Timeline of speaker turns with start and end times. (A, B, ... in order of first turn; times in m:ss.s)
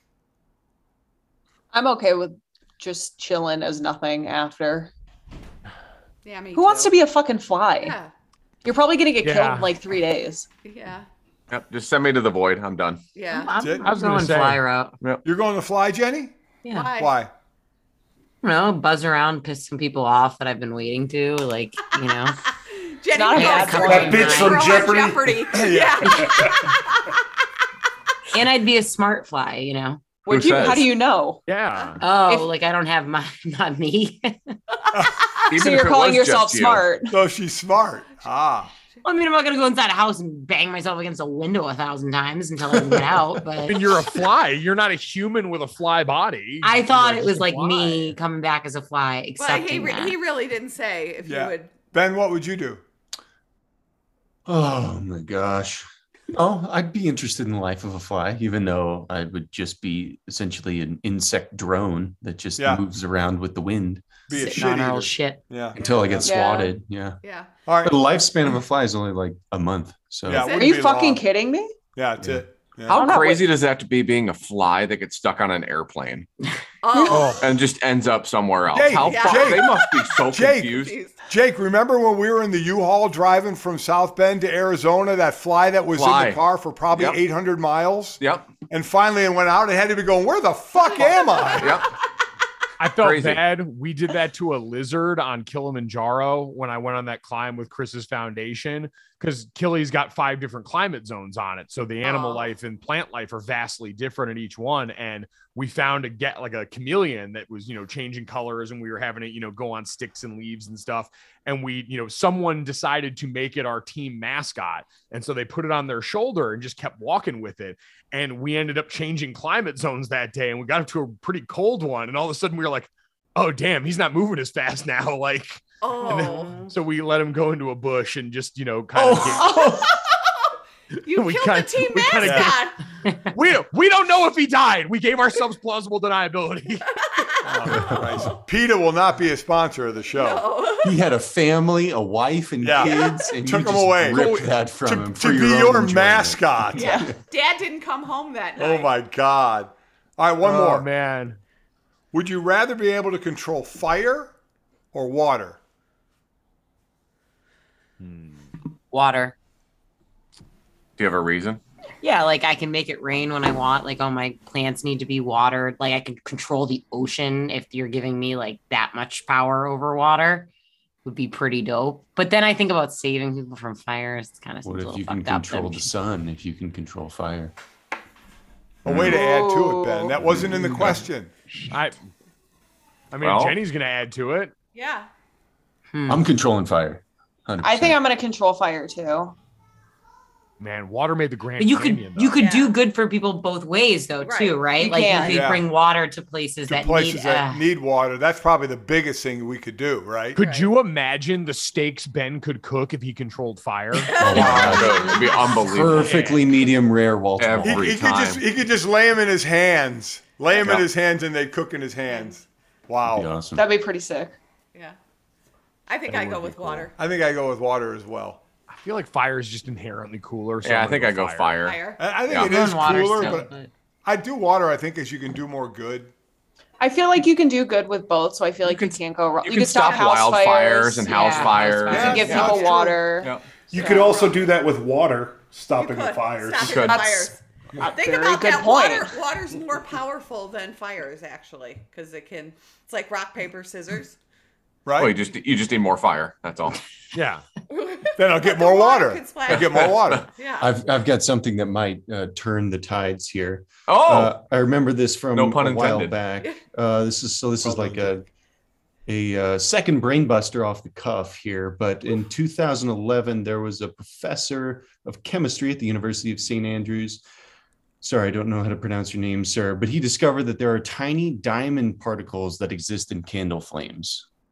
0:01.7-0:04.9 A
0:06.2-0:07.0 B
0:06.6-0:08.0 A
0:07.8-0:08.1 B
0:08.6-0:10.5 A
0:09.2-0:09.7 C
0:10.7-0:11.1 B
0:11.5-0:13.0 D
0:13.2-0:13.5 B
0:13.3-0:15.0 E
0:13.6-0:13.9 F
0:13.8-0:14.6 C
0:15.2-0:16.3 F
0:16.6-0:16.9 E
0:16.7-0:17.1 B
0:17.0-0:17.3 F
0:18.4-0:22.4 E
0:22.7-0:27.2 B
0:23.1-0:24.5 A
0:23.4-0:24.8 E
0:23.8-0:25.6 G
0:25.5-0:26.6 F
0:26.2-0:26.6 G
0:28.3-0:30.2 E
0:30.3-0:31.4 A
0:30.3-0:30.9 D
0:31.5-0:32.0 C
0:32.0-0:34.6 E
0:35.5-0:36.9 D
0:35.5-0:37.2 A
0:37.1-0:38.7 F
0:39.0-0:43.8 E
0:42.7-0:43.2 F
0:43.7-0:48.2 C
0:46.6-0:50.2 E
0:49.4-0:51.7 B
0:51.2-0:52.8 F
0:54.5-1:04.2 H
1:02.6-1:02.8 F
1:04.3-1:06.3 F
1:04.3-1:05.4 E
1:05.7-1:06.2 B
1:05.8-1:07.2 H
1:06.2-1:06.8 A
1:07.2-1:07.5 B
1:07.7-1:08.0 F
1:07.8-1:10.5 H
1:10.3-1:11.2 F
1:10.4-1:10.8 B
1:10.5-1:11.7 A
1:12.0-1:13.0 F
1:12.9-1:16.3 D
1:12.9-1:13.5 A
1:16.8-1:17.5 B
1:17.0-1:17.3 A
1:17.4-1:20.9 D
1:18.7-1:31.8 F
1:19.0-1:20.2 B
1:20.8-1:21.2 B
1:26.0-1:26.4 D
1:26.9-1:27.2 D
1:28.2-1:28.5 D
1:30.8-1:31.9 B
1:31.5-1:31.9 D
1:32.8-2:09.9 C
1:33.0-1:33.4 D
1:42.0-1:42.5 B
2:05.8-2:06.7 B
2:09.0-2:10.3 B
2:11.0-2:12.8 B
2:11.1-2:12.6 C
2:12.2-2:12.5 F
2:13.3-2:16.9 C
2:17.1-2:18.4 B
2:17.4-2:20.4 F
2:17.7-2:18.3 H
2:20.1-2:21.0 B
2:20.8-2:27.1 H
2:22.6-2:26.9 F
2:22.8-2:23.1 B
2:24.1-2:24.5 C
2:26.8-2:27.1 A
2:26.8-2:28.9 B
2:28.6-2:30.9 F
2:30.4-2:31.4 C
2:32.1-2:34.3 F
2:34.9-2:35.6 F
2:38.0-2:38.5 C
2:38.9-2:39.3 E
2:41.0-2:41.6 D
2:42.0-2:50.5 E
2:51.0-2:55.9 E
2:54.6-2:57.5 H
2:58.8-3:01.3 F
2:58.9-2:59.2 H
2:59.0-3:00.2 A
3:00.2-3:01.0 H
3:01.7-3:02.0 C
3:03.1-3:04.5 C
3:03.2-3:03.6 D
3:04.7-3:05.1 B
3:05.9-3:06.2 E
3:06.1-3:08.0 H
3:07.6-3:09.4 A
3:10.6-3:12.4 C
3:11.6-3:17.6 E
3:12.4-3:12.8 B
3:14.2-3:15.4 B
3:14.8-3:15.5 A
3:15.3-3:15.6 F
3:16.7-3:20.4 F
3:20.4-3:20.7 B
3:20.4-3:24.2 C
3:24.0-3:25.6 B
3:24.2-3:28.0 H
3:24.4-3:25.0 F
3:24.4-3:26.4 D
3:26.0-3:26.4 C
3:27.4-3:28.4 D
3:27.6-3:33.3 F
3:30.6-3:30.9 D
3:32.1-3:32.4 B
3:33.1-3:33.7 H
3:33.6-3:34.4 A
3:35.9-3:36.9 B
3:36.1-3:36.9 H
3:36.2-3:36.9 C
3:37.0-3:38.4 F
3:38.7-3:41.5 C
3:40.6-3:43.3 D
3:41.6-3:42.0 B
3:42.0-3:43.5 F
3:42.3-3:43.7 E
3:44.0-3:46.1 F
3:46.8-3:54.3 A
3:48.6-3:53.5 D
3:49.8-3:50.3 B
3:51.1-3:52.4 E
3:51.9-3:52.7 F
3:52.0-3:53.0 B
3:53.7-3:56.7 G
3:53.8-3:54.2 B
3:55.8-4:04.2 B
3:56.6-3:57.0 D
3:56.9-3:59.2 A
4:04.9-4:05.2 F
4:05.0-4:06.8 D
4:07.1-4:07.4 C
4:07.7-4:10.7 B
4:08.2-4:10.3 F
4:09.5-4:10.3 D
4:10.6-4:18.3 H
4:13.9-4:14.3 D
4:15.4-4:16.2 D
4:17.6-4:18.1 F
4:19.1-4:27.2 H
4:28.0-4:34.3 H